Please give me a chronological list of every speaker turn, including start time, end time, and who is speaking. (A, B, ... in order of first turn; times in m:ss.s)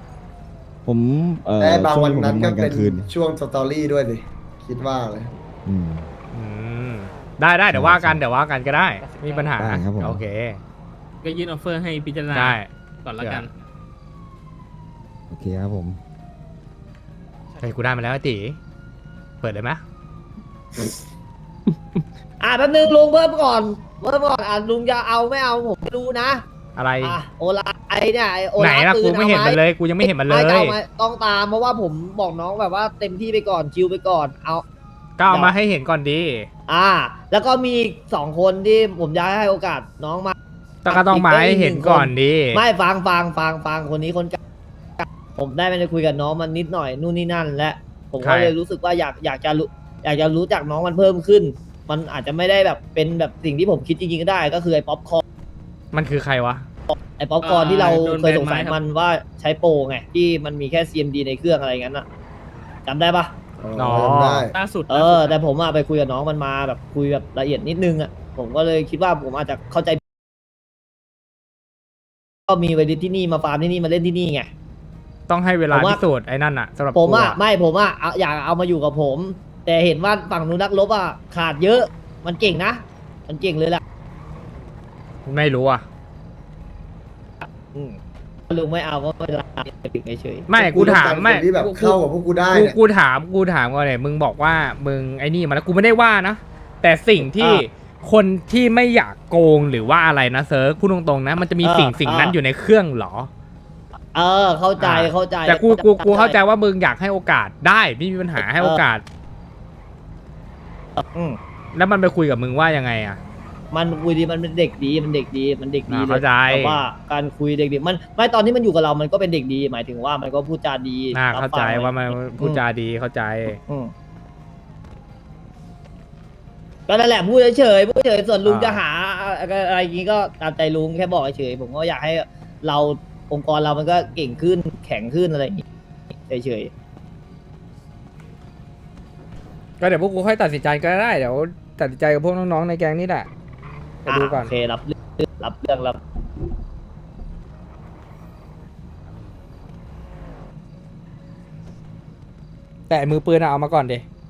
0:00.8-0:03.1 A
0:01.6-0:05.3 B
0:05.7-0:06.1 A
0:06.3-0:10.6 C
0:07.7-0:08.2 A
0:09.6-0:10.2 A
0:11.2-0:13.5 D
0:12.3-0:12.7 C
0:15.3-0:16.0 A
0:17.6-0:18.6 C
0:19.4-0:19.8 C
0:22.4-0:26.4 E
0:26.8-0:27.2 C
0:27.0-0:34.6 E
0:28.6-0:30.8 C
0:35.2-0:36.5 C
0:35.3-0:35.6 E
0:36.7-0:40.4 E
0:40.8-0:42.6 C
0:40.9-0:44.4 E
0:45.0-0:55.2 E
0:48.2-0:48.6 C
0:55.9-0:56.7 C
0:56.9-1:02.0 E
0:57.4-0:58.8 D
1:02.9-1:03.3 E
1:03.6-1:04.5 B
1:03.8-1:04.5 C
1:04.5-1:05.4 D
1:04.9-1:10.0 E
1:12.5-1:14.5 E
1:15.3-1:17.4 C
1:15.7-1:16.0 E
1:16.9-1:23.8 E
1:25.3-1:25.8 C
1:27.4-1:28.0 E
1:28.5-1:30.6 E
1:30.5-1:32.0 C
1:30.6-1:32.8 B
1:32.5-1:43.3 C
1:37.2-1:37.6 E
1:41.6-1:42.4 E
1:44.1-1:46.4 E
1:44.8-1:49.0 C
1:48.4-1:48.8 E
1:51.0-1:51.4 E
1:51.8-1:53.2 C
1:53.7-2:02.6 E
1:55.9-1:56.8 C
2:01.1-2:03.6 C
2:06.9-2:15.6 E
2:08.4-2:08.8 C
2:16.3-2:16.7 E
2:19.8-2:23.3 C
2:24.0-2:24.5 C
2:24.1-2:26.0 E
2:32.9-2:34.0 C